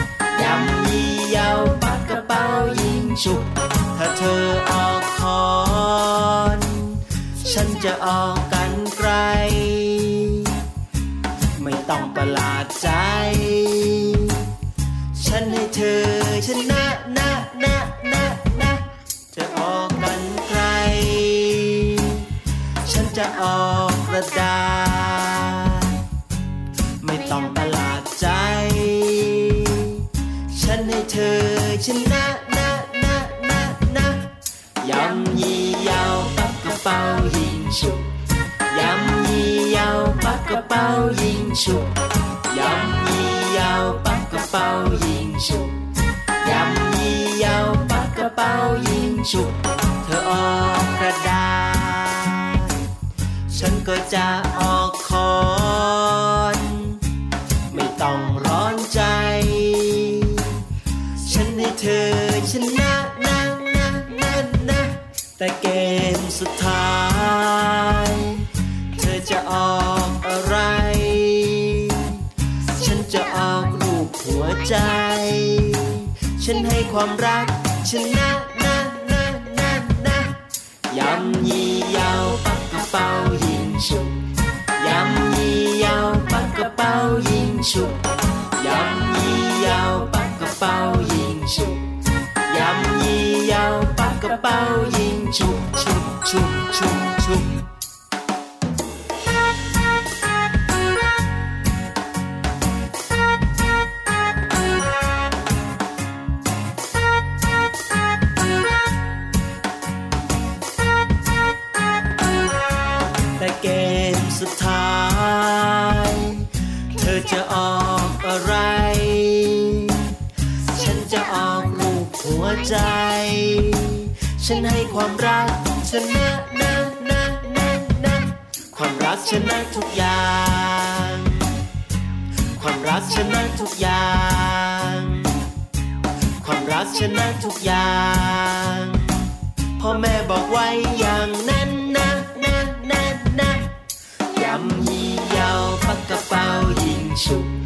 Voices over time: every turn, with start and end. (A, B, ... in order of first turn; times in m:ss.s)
0:00.3-0:10.5 A
0:11.6-0:14.4 A
0:15.1-0:22.2 A
0:22.8-0:25.9 A
0:27.0-0:34.3 A
0:34.8-0:38.0 A
0:38.7-0:41.9 A
0:42.5-0:45.8 A
0:46.4-0:52.8 A
0:53.5-0:57.0 A
0:57.7-1:00.6 A
1:01.2-1:08.4 A
1:08.9-1:12.2 A
1:12.7-1:20.4 A
1:20.9-1:24.1 A
1:24.8-1:28.0 A
1:28.6-1:31.8 A
1:32.4-1:37.6 A
1:53.4-2:00.0 A
2:00.7-2:11.5 A
2:12.6-2:15.3 A
2:16.4-2:19.1 A
2:19.8-2:23.7 A
2:24.3-2:27.5 A